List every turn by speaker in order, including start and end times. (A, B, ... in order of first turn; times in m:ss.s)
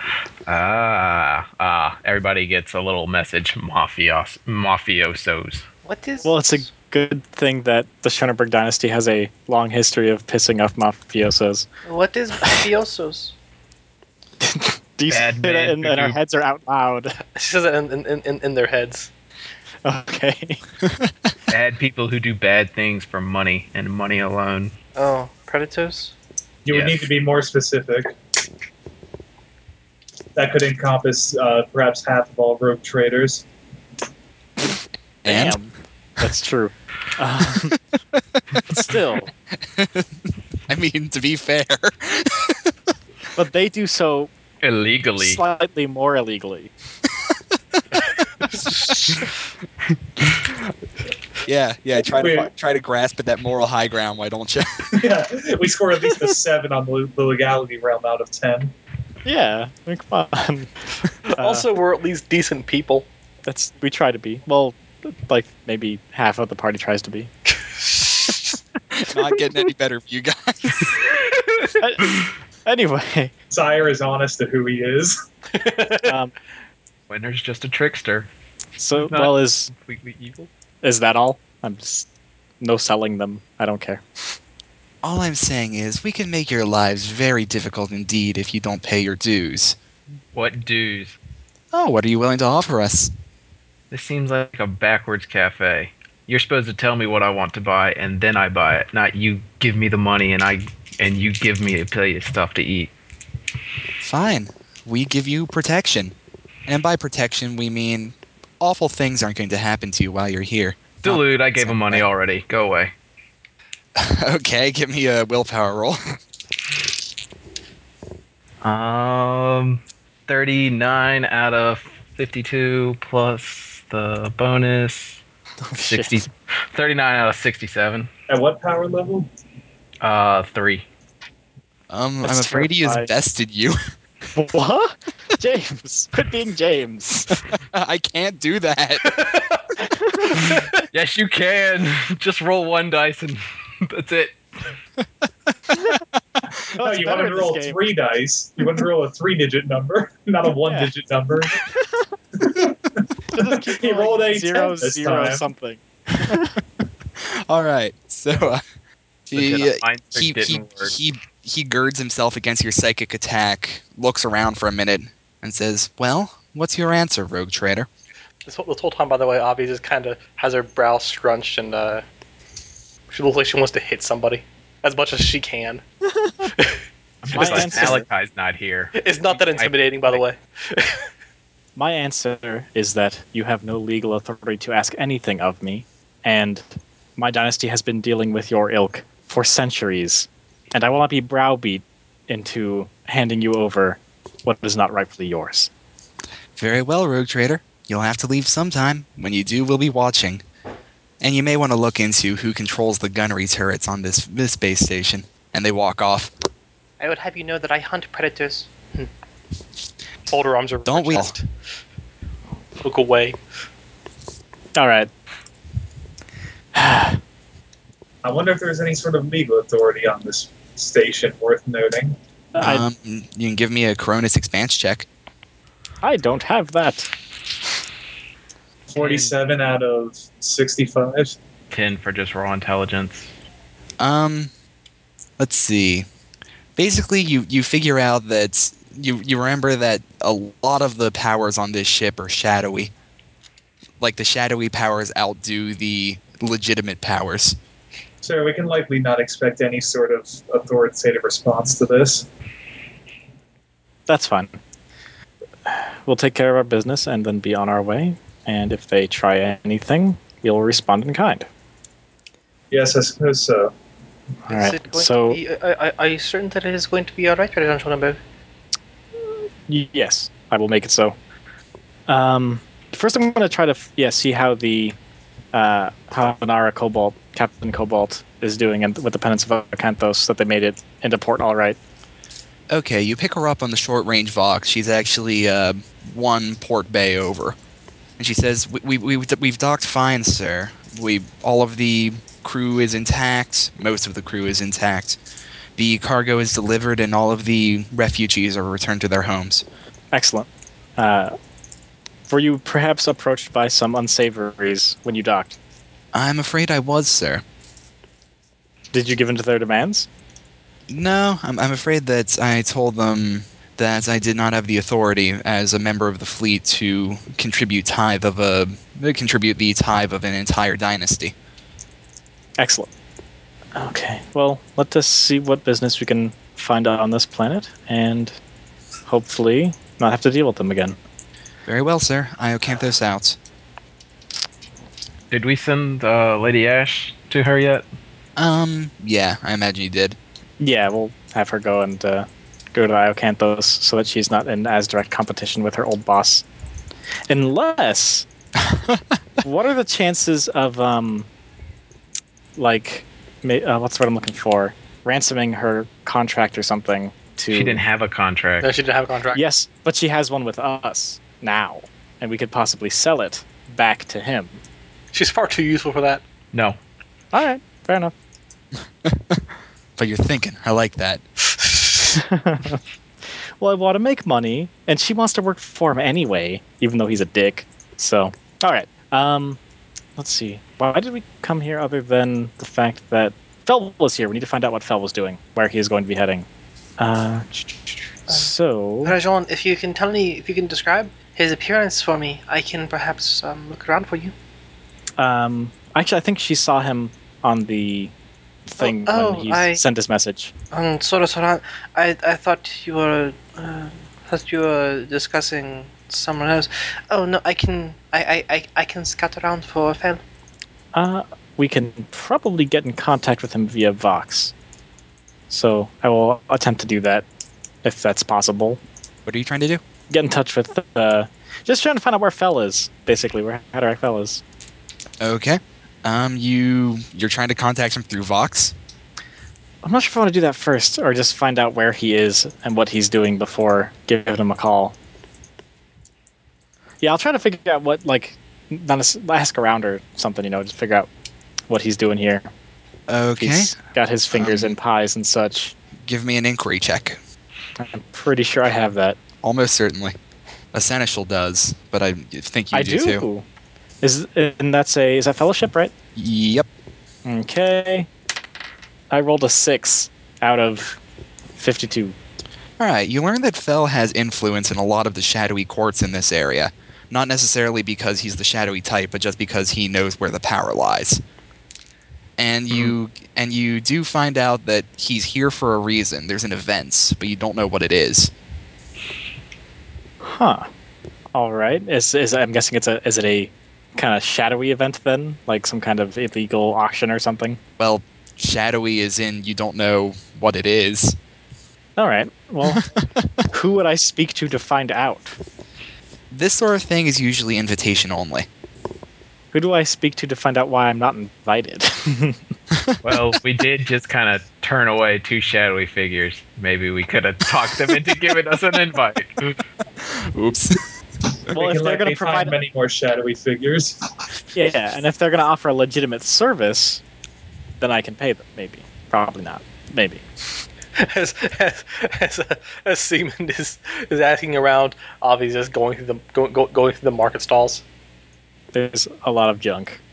0:00.5-0:05.6 A
0:05.8-0:06.7 B
0:06.2-0:11.7 C
0:11.8-0:13.3 B
0:14.4-0:17.2 C
0:15.1-0:16.2 A
0:17.4-0:19.1 D
0:19.8-0:20.6 C
0:21.5-0:24.7 A
0:25.0-0:26.1 B
0:26.6-0:28.1 E
0:26.7-0:27.1 A
0:30.4-0:33.4 E
0:35.2-0:35.6 F
0:35.3-0:37.8 C
0:38.5-0:38.9 F
0:38.7-0:39.3 C
0:39.6-0:40.1 F
0:40.7-0:42.8 F
0:43.4-0:44.3 C
0:44.6-0:45.4 A
0:45.2-0:46.7 C
0:51.4-0:54.9 F
0:52.2-0:52.5 E
0:54.9-0:58.7 E
0:59.2-1:00.7 C
1:01.3-1:03.1 D
1:01.4-1:01.7 C
1:03.4-1:07.3 C
1:07.6-1:08.6 D
1:09.0-1:11.0 F
1:11.8-1:13.3 C
1:13.5-1:15.2 E
1:15.5-1:16.1 D
1:16.1-1:16.3 C
1:17.1-1:18.3 A
1:18.8-1:19.7 C
1:18.9-1:20.5 A
1:20.8-1:22.1 C
1:22.6-1:24.4 C
1:25.0-1:29.8 F
1:30.3-1:31.2 A
1:31.7-1:33.1 F
1:33.9-1:42.9 A
1:44.0-1:46.2 F
1:46.7-1:52.1 F
1:51.0-1:52.9 A
1:54.0-1:56.0 F
1:58.6-2:05.2 A
2:05.6-2:06.3 C
2:05.8-2:08.1 A
2:08.3-2:09.3 E
2:10.0-2:10.8 A
2:11.9-2:13.8 F
2:12.2-2:13.1 C
2:14.3-2:17.4 C
2:17.5-2:19.1 F
2:19.8-2:20.6 C
2:20.9-2:24.7 A
2:26.8-2:27.8 C
2:26.8-2:31.6 E
2:30.6-2:30.9 C
2:31.6-2:32.1 C
2:32.4-2:35.5 E
2:33.3-2:36.6 C
2:37.2-2:38.6 F
2:39.3-2:47.9 F
2:39.3-2:41.0 A
2:48.5-2:52.0 D
2:53.1-2:55.8 D
2:56.5-2:58.0 D
2:57.2-3:00.2 A
2:57.3-2:58.1 C
2:59.0-3:01.0 D
3:01.8-3:15.7 C
3:16.6-3:20.4 F
3:21.2-3:26.3 F
3:27.0-3:29.1 B
3:30.3-3:31.5 D
3:30.9-3:31.3 F
3:32.8-3:33.4 D
3:34.8-3:35.1 C
3:36.7-3:37.2 C
3:38.2-3:42.2 E
3:42.6-3:42.9 C
3:42.6-3:45.1 F
3:46.0-3:47.1 C
3:48.9-3:51.4 E
3:49.0-3:49.4 A
3:51.7-3:53.3 A
3:54.0-3:54.5 F
3:55.4-3:56.1 F
3:56.8-4:02.9 F
4:04.0-4:07.6 F
4:08.2-4:12.3 E
4:14.1-4:14.6 C
4:15.7-4:21.5 C
4:22.7-4:23.7 E
4:24.5-4:25.4 C
4:24.5-4:28.2 B
4:29.7-4:31.2 C
4:32.1-4:35.0 C
4:35.5-4:41.8 C
4:42.7-4:47.6 F
4:48.2-4:55.2 F
4:55.8-4:59.6 F
5:00.1-5:01.4 C
5:02.3-5:05.6 C
5:06.1-5:07.4 F
5:08.9-5:10.1 C
5:10.9-5:21.3 F
5:22.6-5:22.9 C
5:23.8-5:28.4 C
5:29.1-5:31.0 C
5:31.7-5:33.4 F
5:35.3-5:37.8 A
5:38.4-5:40.2 F
5:40.6-5:46.5 C
5:47.3-5:48.3 C
5:48.6-5:49.2 F
5:49.4-5:51.3 C
5:52.6-5:57.8 C
5:57.5-5:58.7 A
5:58.6-5:59.4 D
5:59.3-6:04.6 C
6:05.1-6:06.2 D
6:07.3-6:08.1 C
6:09.0-6:09.4 F
6:10.0-6:11.2 F
6:11.6-6:12.1 D
6:12.2-6:12.8 C
6:13.6-6:19.6 C
6:20.2-6:26.5 C
6:27.0-6:29.2 C
6:29.0-6:34.3 B
6:35.2-6:38.1 C
6:38.7-6:40.5 C
6:38.8-6:39.8 B
6:40.7-6:50.2 B
6:50.9-6:54.5 C
6:55.5-6:57.3 C
6:57.8-6:58.8 C
6:59.3-6:59.8 F
7:00.1-7:04.4 C
7:05.2-7:08.7 F
7:09.8-7:15.0 C
7:17.0-7:21.1 C
7:21.7-7:22.5 C
7:23.1-7:23.8 F
7:23.4-7:25.8 C
7:24.3-7:24.8 F
7:26.0-7:27.2 F
7:27.8-7:29.2 C
7:29.4-7:30.2 F
7:30.7-7:33.3 F
7:32.7-7:33.4 C
7:34.0-7:35.9 C
7:36.2-7:36.7 F
7:37.2-7:38.1 C
7:39.1-7:41.0 C
7:41.6-7:42.2 C
7:42.8-7:51.2 F
7:52.4-7:58.3 F
8:00.2-8:00.7 C
8:01.3-8:07.6 C
8:07.8-8:11.2 F
8:12.0-8:12.9 C
8:13.5-8:15.4 C
8:16.3-8:18.5 F
8:19.5-8:22.4 C
8:22.7-8:23.2 F
8:23.0-8:29.6 A
8:30.0-8:30.8 F
8:31.5-8:32.6 C
8:31.6-8:34.0 E
8:34.5-8:37.0 C
8:37.8-8:40.2 C
8:41.0-8:47.8 D
8:48.7-8:50.0 C